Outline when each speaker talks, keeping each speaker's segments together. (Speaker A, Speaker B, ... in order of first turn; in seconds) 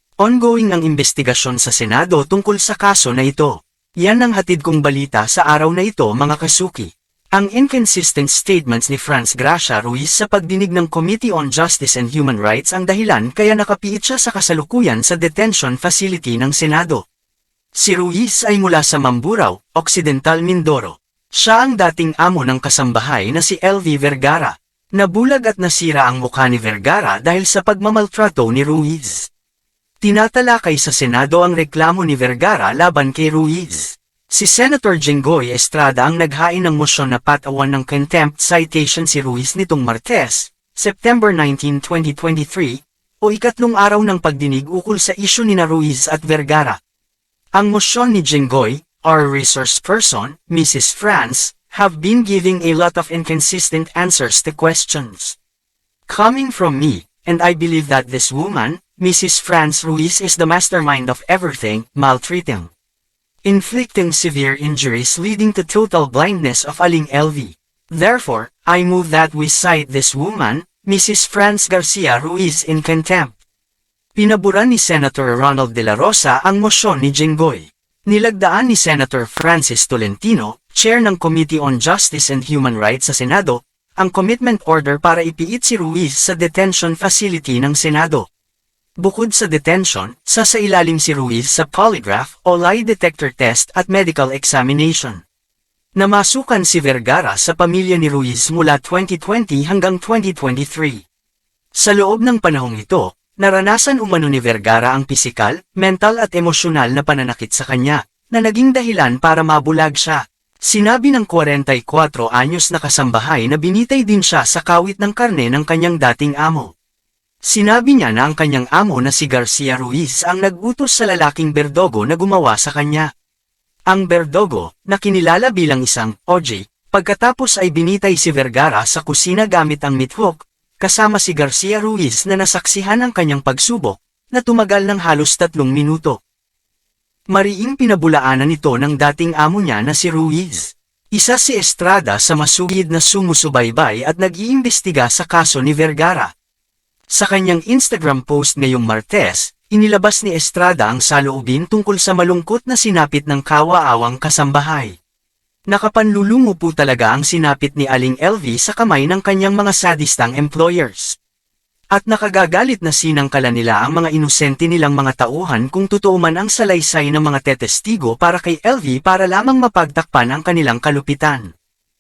Speaker A: 0.2-17.0, 17.8-29.3, 30.0-46.8, 47.5-55.4, 56.1-62.7, 63.4-73.4, 74.2-88.3, 89.0-95.2, 96.0-101.0, 101.8-116.7, 117.4-123.1, 123.9-136.2, 137.3-146.3, 147.1-155.0, 155.7-161.2, 161.9-171.5